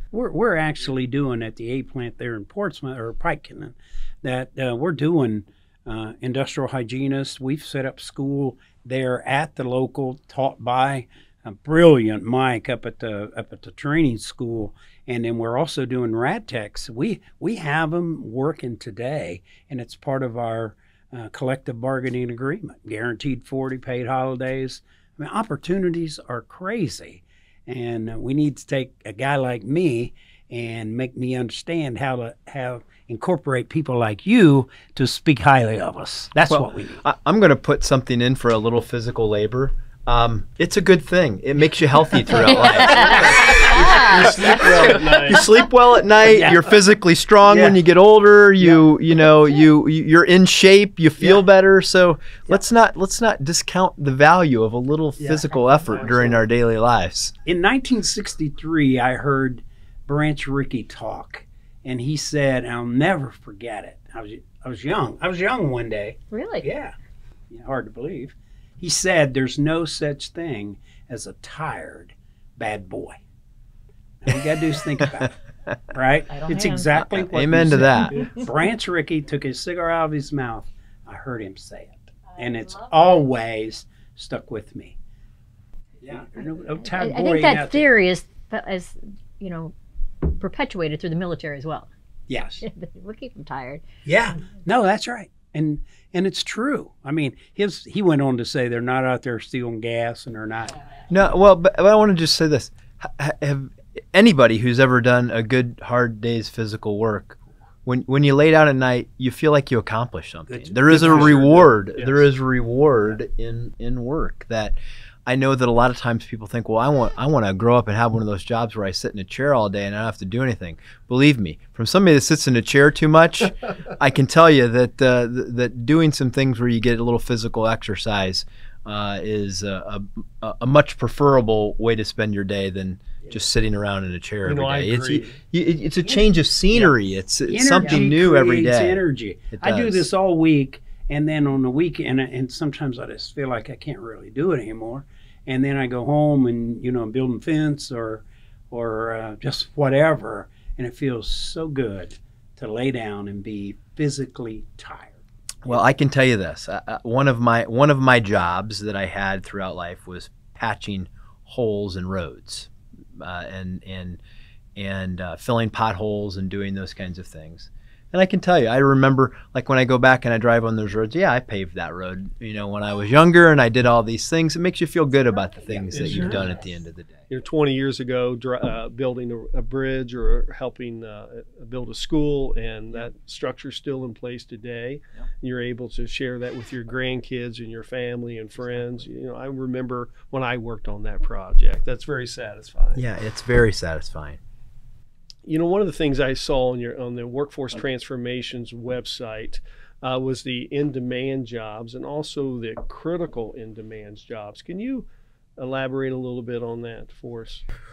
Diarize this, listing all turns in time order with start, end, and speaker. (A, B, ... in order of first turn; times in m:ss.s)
0:00.1-0:37.0 A
0:36.5-0:57.4 B
0:42.6-0:44.1 C
0:43.0-0:45.5 D
0:43.0-0:45.4 A
0:46.3-0:46.7 A
0:47.5-0:47.8 A
0:48.6-0:48.9 A
0:55.2-0:56.4 A
0:57.4-1:06.9 A
1:06.3-1:06.7 C
1:07.5-1:13.2 A
1:14.2-1:15.3 A
1:15.2-1:15.8 B
1:15.9-1:25.0 A
1:16.4-1:16.8 C
1:16.9-1:18.3 B
1:26.0-1:27.9 A
1:26.9-1:31.9 C
1:32.3-1:32.6 A
1:32.6-1:33.8 C
1:34.0-1:40.8 A
1:41.1-2:20.0 B
1:50.5-1:51.6 A
1:50.9-1:52.3 D
2:14.4-2:15.4 D
2:17.5-2:35.8 A
2:35.6-2:44.2 B
2:44.8-2:57.3 B
2:55.8-2:56.5 A
2:55.9-2:56.6 D
2:57.3-3:13.0 D
3:13.0-3:14.4 B
3:15.5-3:25.0 D
3:25.6-3:27.6 D